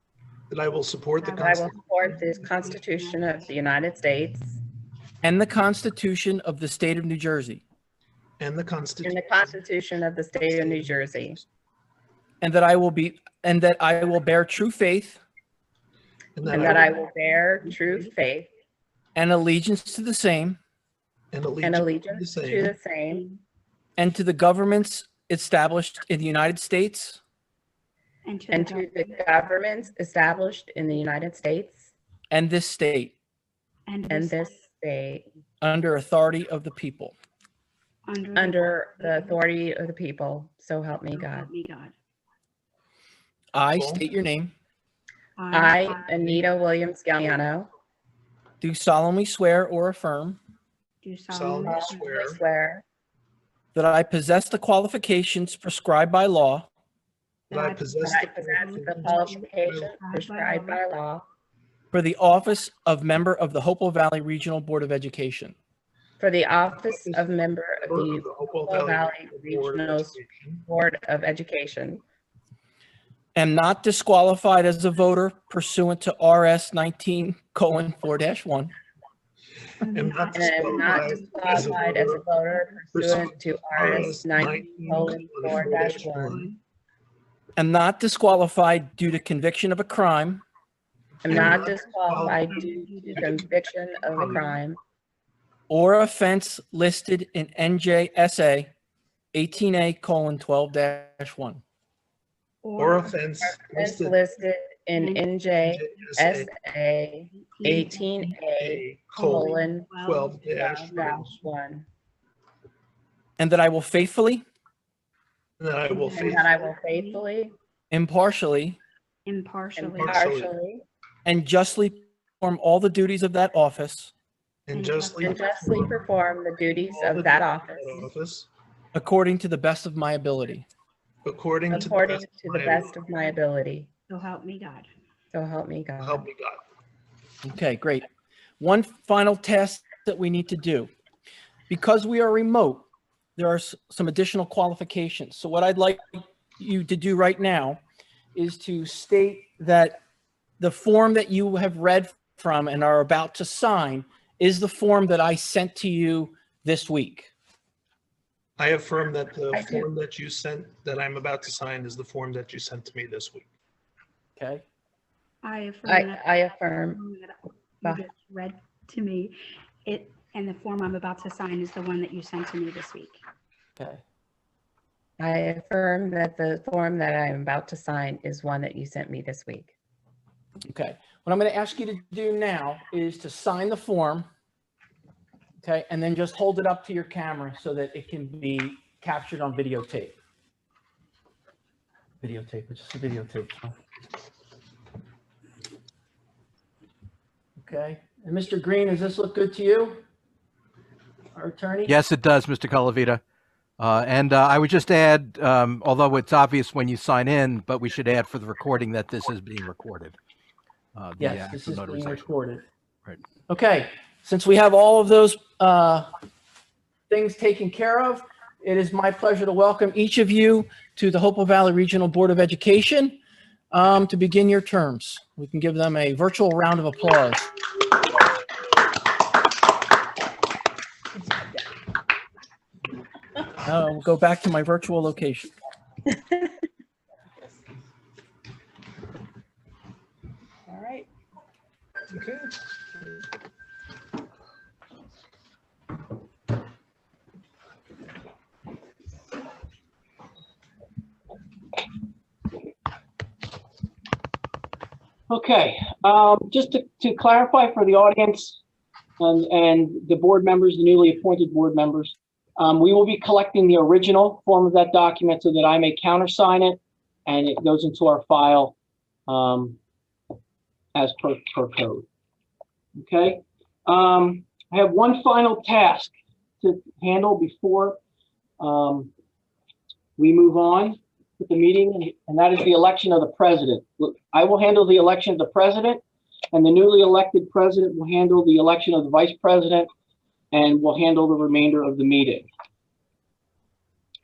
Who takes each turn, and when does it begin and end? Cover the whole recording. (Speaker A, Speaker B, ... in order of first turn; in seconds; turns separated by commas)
Speaker A: 0.5-1.8, Speaker B: 1.2-3.8, Speaker C: 1.4-4.6, Speaker D: 5.2-7.6, Speaker A: 8.4-9.6, Speaker C: 9.0-11.4, Speaker A: 10.5-11.4, Speaker D: 12.4-15.2, Speaker A: 16.4-16.9, Speaker C: 16.5-18.5, Speaker B: 16.5-18.1, Speaker D: 19.2-20.6, Speaker A: 21.3-22.8, Speaker C: 21.6-23.2, Speaker B: 23.1-23.4, Speaker D: 24.0-27.2, Speaker B: 28.2-29.4, Speaker C: 28.5-31.9, Speaker D: 32.3-33.1, Speaker B: 33.9-34.6, Speaker C: 34.1-35.3, Speaker D: 35.6-37.1, Speaker B: 38.1-39.4, Speaker C: 38.4-41.5, Speaker B: 41.1-41.9, Speaker D: 43.5-44.5, Speaker A: 43.7-44.0, Speaker B: 45.4-46.4, Speaker C: 45.5-47.7, Speaker D: 48.6-50.4, Speaker B: 51.0-52.2, Speaker A: 51.3-52.4, Speaker C: 51.7-52.8, Speaker D: 53.7-56.7, Speaker B: 57.5-60.8, Speaker A: 57.5-59.9, Speaker C: 58.0-61.2, Speaker D: 61.9-65.6, Speaker C: 66.2-72.0, Speaker A: 66.8-67.2, Speaker A: 67.8-70.7, Speaker D: 73.4-78.7, Speaker B: 79.8-83.2, Speaker A: 79.9-82.2, Speaker C: 80.3-86.4, Speaker A: 83.0-86.5, Speaker B: 83.9-86.6, Speaker D: 87.6-90.4, Speaker C: 91.2-94.8, Speaker A: 91.3-93.5, Speaker B: 92.1-93.5, Speaker A: 94.2-94.4, Speaker B: 94.2-94.6, Speaker D: 95.7-98.7, Speaker D: 99.3-101.6, Speaker B: 102.6-103.2, Speaker A: 102.8-104.2, Speaker C: 103.4-109.9, Speaker B: 105.0-105.3, Speaker A: 105.6-106.5, Speaker B: 107.3-108.4, Speaker A: 108.6-111.4, Speaker B: 109.2-111.2, Speaker C: 110.5-111.9, Speaker D: 113.4-114.4, Speaker A: 115.6-116.5, Speaker B: 115.9-117.2, Speaker C: 116.1-117.5, Speaker D: 117.9-118.8, Speaker B: 119.3-120.3, Speaker C: 119.8-120.8, Speaker A: 120.0-120.5, Speaker D: 121.2-124.1, Speaker A: 124.7-126.0, Speaker B: 124.7-125.8, Speaker C: 125.2-128.1, Speaker A: 126.8-128.5, Speaker D: 128.9-130.7, Speaker A: 131.2-132.9, Speaker C: 131.7-133.9, Speaker B: 134.1-134.9, Speaker C: 135.3-136.3, Speaker A: 136.0-136.6, Speaker D: 137.4-138.1, Speaker D: 138.6-140.9, Speaker D: 141.7-142.9, Speaker D: 143.4-147.8, Speaker D: 148.3-150.0, Speaker D: 150.6-157.3, Speaker A: 158.6-163.5, Speaker C: 159.5-159.8, Speaker D: 164.4-164.6, Speaker B: 165.4-173.2, Speaker C: 165.9-167.0, Speaker C: 175.2-179.7, Speaker D: 180.7-184.3, Speaker D: 185.6-190.2, Speaker D: 192.2-193.8, Speaker D: 197.6-200.0, Speaker D: 201.3-202.0, Speaker E: 201.9-203.2, Speaker E: 203.8-210.2, Speaker E: 210.9-212.2, Speaker D: 211.2-212.7, Speaker D: 213.5-216.1, Speaker D: 217.1-223.2, Speaker D: 223.7-227.4, Speaker D: 233.6-235.5, Speaker C: 240.7-241.1, Speaker A: 242.1-242.5, Speaker D: 255.3-258.6, Speaker D: 259.2-268.7, Speaker D: 269.3-269.8, Speaker D: 270.9-272.1, Speaker D: 273.0-278.0, Speaker D: 278.6-279.1, Speaker D: 280.2-289.9, Speaker D: 290.5-292.5